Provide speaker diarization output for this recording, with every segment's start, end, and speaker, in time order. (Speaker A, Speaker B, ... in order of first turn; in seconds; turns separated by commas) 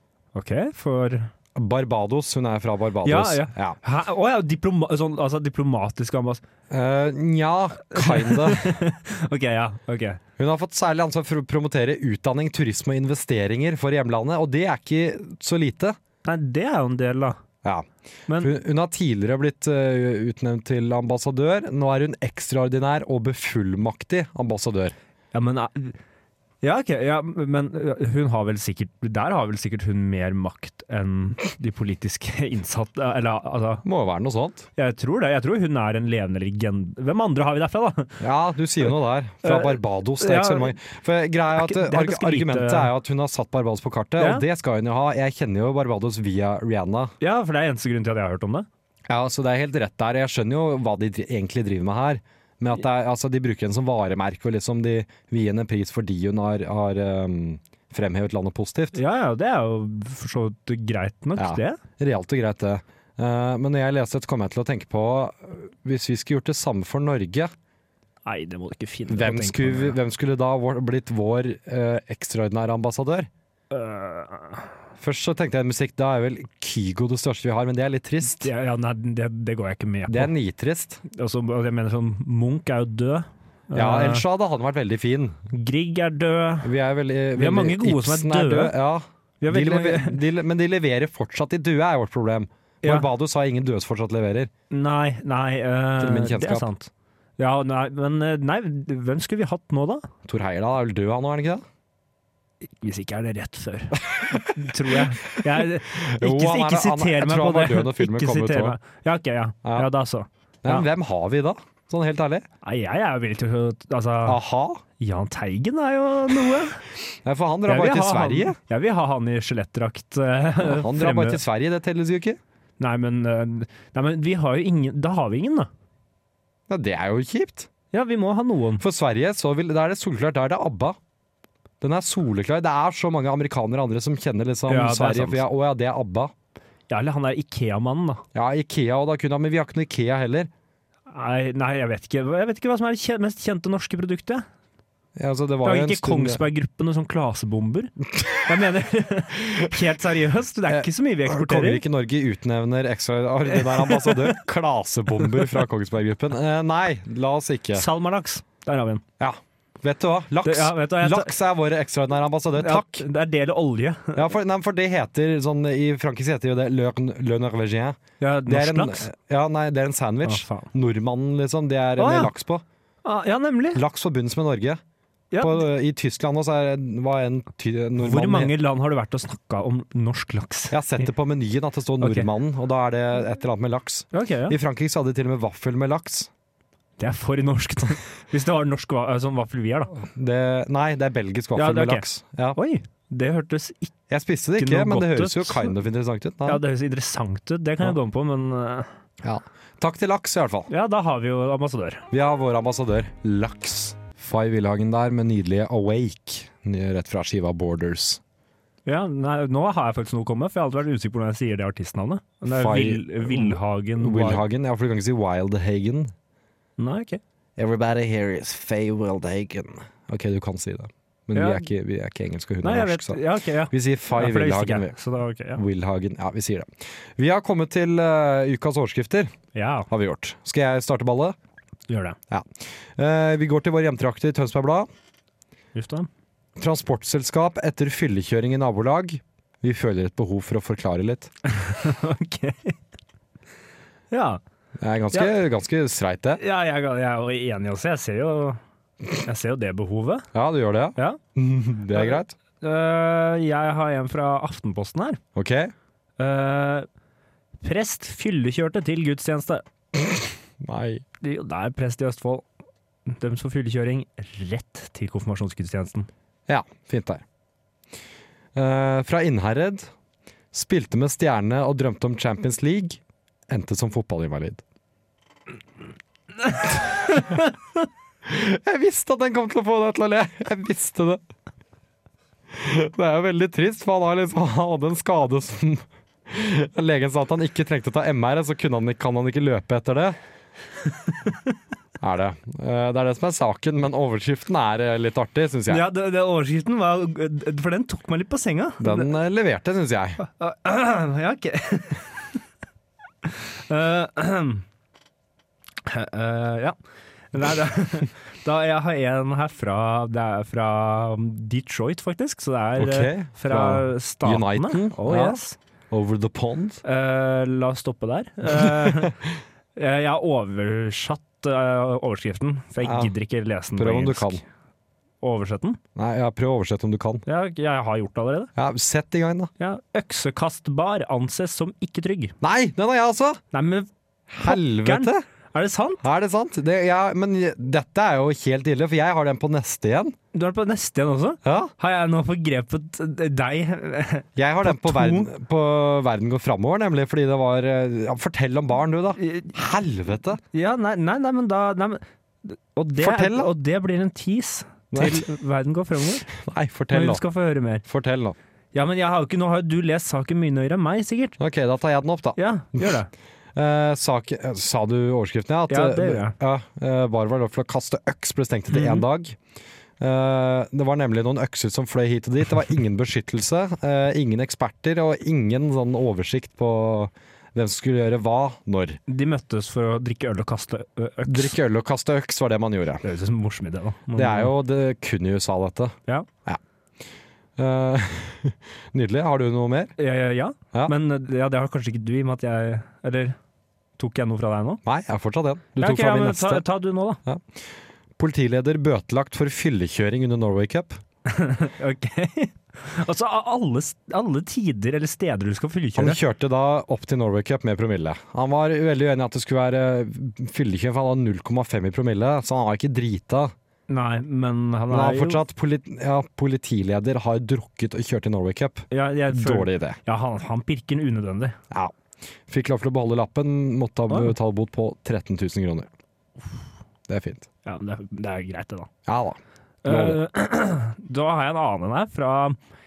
Speaker A: 0.3-1.3, Speaker B: 1.6-3.8, Speaker A: 3.0-6.4, Speaker B: 6.7-8.8, Speaker A: 7.9-10.2, Speaker B: 10.4-16.0, Speaker A: 16.2-17.4, Speaker B: 17.6-25.0, Speaker A: 18.3-18.5, Speaker A: 25.3-26.0, Speaker A: 26.6-33.9, Speaker B: 33.9-34.7, Speaker A: 34.8-38.2, Speaker B: 38.2-47.1, Speaker A: 39.4-40.8, Speaker A: 41.5-42.9, Speaker A: 44.2-44.5, Speaker A: 47.2-48.7, Speaker B: 49.1-59.0, Speaker A: 58.9-61.8, Speaker B: 61.4-67.5, Speaker A: 68.3-70.0, Speaker B: 69.1-73.3, Speaker A: 73.7-74.7, Speaker B: 75.0-78.5, Speaker A: 78.2-80.3, Speaker B: 80.1-81.0, Speaker A: 81.1-84.2, Speaker B: 83.7-85.4, Speaker A: 85.5-86.7, Speaker B: 86.6-94.5, Speaker A: 87.4-88.8, Speaker A: 89.4-90.2, Speaker A: 94.7-100.1, Speaker B: 96.0-96.7, Speaker B: 100.2-101.6, Speaker A: 102.8-110.9, Speaker B: 104.1-105.0, Speaker B: 105.6-108.8, Speaker B: 109.6-109.9, Speaker B: 110.6-112.5, Speaker A: 112.6-114.4, Speaker B: 114.2-114.8, Speaker A: 115.0-116.8, Speaker B: 117.2-118.6, Speaker A: 117.7-121.4, Speaker B: 120.6-122.4, Speaker A: 122.8-125.7, Speaker B: 126.7-127.7, Speaker A: 127.9-128.8, Speaker B: 128.8-131.0, Speaker B: 131.8-136.3, Speaker A: 134.7-135.4, Speaker A: 136.9-138.2, Speaker B: 138.3-140.5, Speaker A: 141.1-144.5, Speaker B: 145.2-146.4, Speaker A: 145.6-147.9, Speaker A: 148.4-151.8, Speaker B: 150.7-157.9, Speaker A: 153.5-154.4, Speaker A: 157.7-159.0, Speaker B: 159.2-163.1, Speaker A: 160.4-161.3, Speaker A: 162.6-164.3, Speaker B: 164.1-172.6, Speaker A: 168.2-169.1, Speaker A: 170.2-170.7, Speaker A: 172.0-172.3, Speaker A: 173.0-173.8, Speaker B: 173.7-174.8, Speaker A: 175.3-175.6, Speaker B: 175.4-178.5, Speaker A: 178.0-181.1, Speaker B: 180.7-186.3, Speaker A: 182.0-182.3, Speaker A: 184.1-184.6, Speaker A: 187.0-189.9, Speaker B: 189.9-192.6, Speaker A: 191.6-193.9, Speaker B: 194.1-196.6, Speaker A: 194.6-195.7, Speaker A: 196.4-198.9, Speaker B: 199.2-200.7, Speaker A: 200.7-202.1, Speaker B: 202.1-208.2, Speaker A: 208.9-214.4, Speaker B: 212.4-216.1, Speaker A: 216.8-217.2, Speaker B: 217.6-225.0, Speaker A: 221.3-221.7, Speaker A: 222.6-225.6, Speaker B: 225.6-229.3, Speaker A: 229.5-229.9, Speaker B: 229.9-231.4, Speaker A: 231.9-232.2, Speaker B: 232.3-234.9, Speaker A: 235.8-236.1, Speaker B: 236.6-241.3, Speaker A: 241.5-242.8, Speaker A: 244.1-244.4, Speaker B: 244.8-246.4, Speaker A: 246.4-248.6, Speaker A: 249.2-250.3, Speaker B: 250.3-252.4, Speaker A: 251.9-255.2, Speaker B: 255.3-255.7, Speaker A: 256.2-256.9, Speaker A: 257.6-259.6, Speaker B: 260.6-261.0, Speaker A: 261.2-262.4, Speaker A: 263.1-266.1, Speaker B: 266.5-267.2, Speaker B: 268.6-269.9, Speaker B: 270.5-274.6, Speaker A: 277.1-277.4, Speaker B: 278.2-281.2, Speaker B: 282.5-290.2, Speaker B: 292.0-295.9, Speaker A: 295.7-299.1, Speaker B: 298.8-300.2, Speaker A: 300.2-302.1, Speaker A: 303.2-304.6, Speaker A: 305.9-306.8, Speaker A: 307.3-315.6, Speaker B: 312.8-315.4, Speaker B: 315.9-316.8, Speaker A: 316.8-319.2, Speaker B: 318.5-319.1, Speaker A: 319.8-324.4, Speaker B: 322.8-323.1, Speaker B: 323.8-324.4, Speaker A: 325.2-325.8, Speaker B: 325.9-327.2, Speaker A: 327.3-328.5, Speaker B: 328.6-329.5, Speaker A: 329.6-332.4, Speaker B: 332.4-333.4, Speaker A: 333.5-333.9, Speaker B: 334.3-335.2, Speaker A: 334.4-336.0, Speaker B: 336.0-340.2, Speaker A: 340.3-345.3, Speaker B: 341.4-341.7, Speaker B: 344.4-350.4, Speaker A: 349.2-349.5, Speaker A: 350.5-356.3, Speaker B: 353.0-353.5, Speaker B: 354.9-355.2, Speaker B: 356.3-357.2, Speaker A: 356.9-357.9, Speaker B: 357.9-358.4, Speaker A: 358.7-361.4, Speaker B: 361.4-362.9, Speaker A: 362.4-363.1, Speaker B: 363.6-369.4, Speaker A: 365.7-366.4, Speaker A: 368.7-369.0, Speaker B: 370.0-379.0, Speaker A: 379.1-381.6, Speaker B: 381.3-383.1, Speaker A: 383.0-384.5, Speaker B: 384.1-386.6, Speaker B: 387.6-389.9, Speaker A: 390.0-393.4, Speaker A: 394.0-394.8, Speaker B: 394.9-396.6, Speaker A: 395.8-397.2, Speaker B: 397.2-397.6, Speaker B: 398.2-401.0, Speaker A: 401.3-406.2, Speaker B: 405.9-413.5, Speaker A: 413.9-415.4, Speaker B: 414.9-420.0, Speaker A: 418.9-421.6, Speaker B: 422.5-425.9, Speaker B: 427.1-427.5, Speaker A: 427.6-428.9, Speaker B: 429.1-430.2, Speaker A: 429.8-432.6